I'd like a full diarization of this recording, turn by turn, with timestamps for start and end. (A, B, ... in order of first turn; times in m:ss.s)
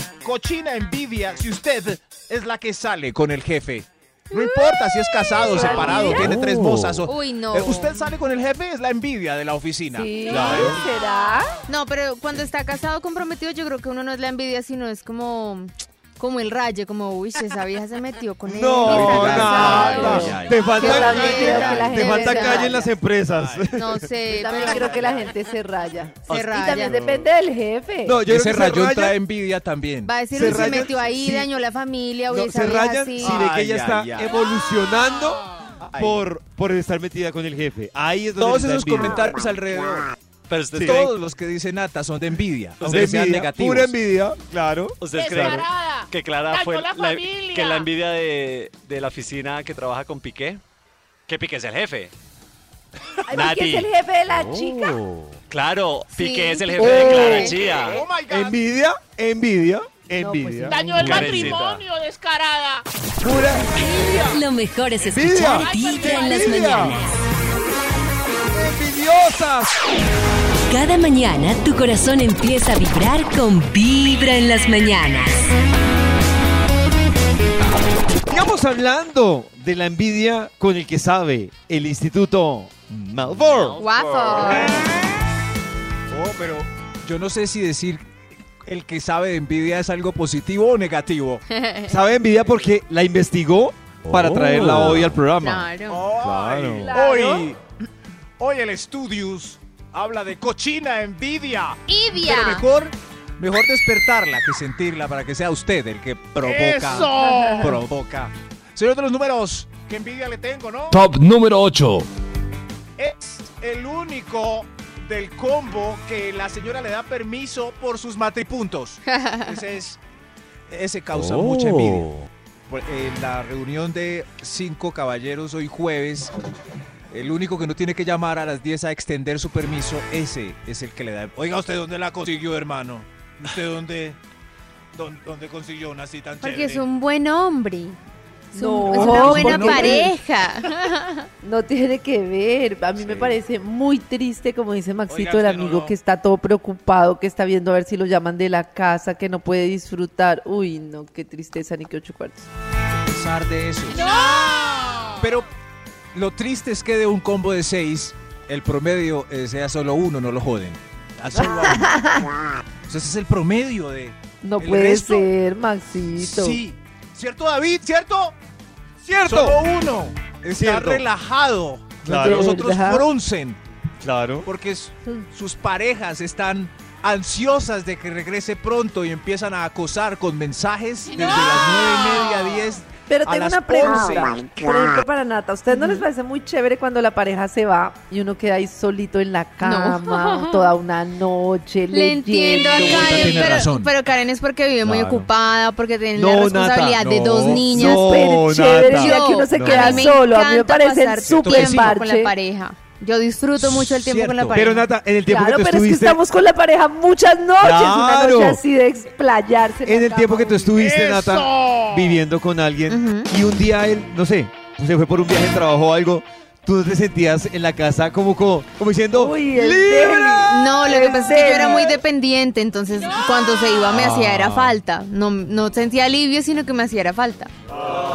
0:00.2-0:10.9 A
0:05.3-0:06.1 B
0:05.5-0:06.3 C
0:05.7-0:07.0 D
0:07.0-0:08.1 B
0:09.9-0:11.5 C
0:10.3-0:10.8 D
0:11.7-0:22.8 B
0:18.4-0:24.1 D
0:18.8-0:21.6 A
0:19.3-0:22.9 C
0:23.3-0:23.7 A
0:23.7-0:25.0 B
0:24.3-0:28.2 C
0:24.4-0:25.3 A
0:26.3-0:27.0 B
0:26.7-0:27.3 D
0:28.0-0:29.2 D
0:28.2-0:30.9 A
0:30.0-0:33.4 B
0:30.3-0:31.5 D
0:32.3-0:39.3 D
0:33.2-0:34.3 A
0:35.8-0:36.2 A
0:38.4-0:40.1 A
0:40.5-0:41.1 E
0:40.7-0:41.0 D
0:40.8-0:43.9 A
0:42.8-0:45.6 D
0:45.0-0:50.6 E
0:45.1-0:47.9 F
0:51.3-0:52.1 E
0:53.3-0:55.0 C
0:53.3-0:53.9 E
0:54.7-0:55.3 G
0:55.5-0:58.0 E
0:56.1-0:57.6 B
0:56.8-0:57.5 C
0:57.0-0:57.4 D
0:57.6-0:58.5 F
0:57.9-0:58.5 A
0:58.3-1:01.6 D
1:00.2-1:01.3 C
1:00.7-1:02.8 F
1:01.0-1:01.8 E
1:03.2-1:04.4 D
1:03.8-1:04.2 F
1:03.9-1:07.2 H
1:05.0-1:07.0 D
1:05.4-1:06.9 F
1:08.5-1:09.8 D
1:10.7-1:15.5 H
1:18.3-1:23.8 D
1:23.7-1:24.4 E
1:23.8-1:24.8 B
1:24.2-1:24.9 A
1:26.1-1:28.1 A
1:28.6-1:31.4 A
1:31.5-1:32.0 B
1:31.9-1:36.9 D
1:34.1-1:35.1 G
1:34.5-1:36.0 B
1:35.9-1:37.6 A
1:36.7-1:37.5 C
1:38.4-1:51.0 A
1:41.9-1:42.6 B
1:46.4-1:47.8 F
1:47.2-1:47.7 C
1:50.9-1:52.1 G
1:53.0-2:00.0 A
1:59.1-1:59.6 B
2:00.7-2:02.1 A
2:01.2-2:01.6 D
2:01.3-2:02.0 G
2:02.7-2:06.3 A
2:07.1-2:14.2 A
2:14.9-2:16.8 A
2:16.4-2:18.0 B
2:18.5-2:21.3 B
2:18.5-2:20.1 C
2:18.9-2:20.1 A
2:21.4-2:32.5 C
2:23.0-2:23.4 D
2:25.1-2:25.9 A
2:33.0-2:34.2 A
2:35.2-2:35.5 A
2:36.1-2:42.0 A
2:41.3-2:42.3 C
2:42.9-2:45.3 A
2:44.4-2:46.6 C
2:46.2-2:48.4 A
2:49.0-2:49.6 D
2:49.2-2:53.6 A
2:50.5-2:51.0 D
2:52.0-2:52.6 D
2:52.1-2:53.0 C
2:54.0-2:54.5 D
2:54.4-3:04.4 A
3:03.1-3:13.6 C
3:05.7-3:06.0 B
3:09.6-3:10.7 B
3:11.9-3:18.1 B
3:12.5-3:13.9 A
3:14.8-3:15.3 D
3:16.1-3:20.1 D
3:17.0-3:17.7 A
3:17.8-3:22.3 C
3:18.8-3:24.9 B
3:21.2-3:21.9 A
3:23.6-3:24.6 A
3:24.5-3:26.2 D
3:25.3-3:30.8 C
3:27.6-3:28.6 D
3:29.8-3:40.7 D
3:30.8-3:31.5 A
3:30.8-3:32.1 F
3:32.9-3:33.3 B
3:39.1-3:42.0 C
3:40.5-3:47.5 B
3:44.1-3:44.6 A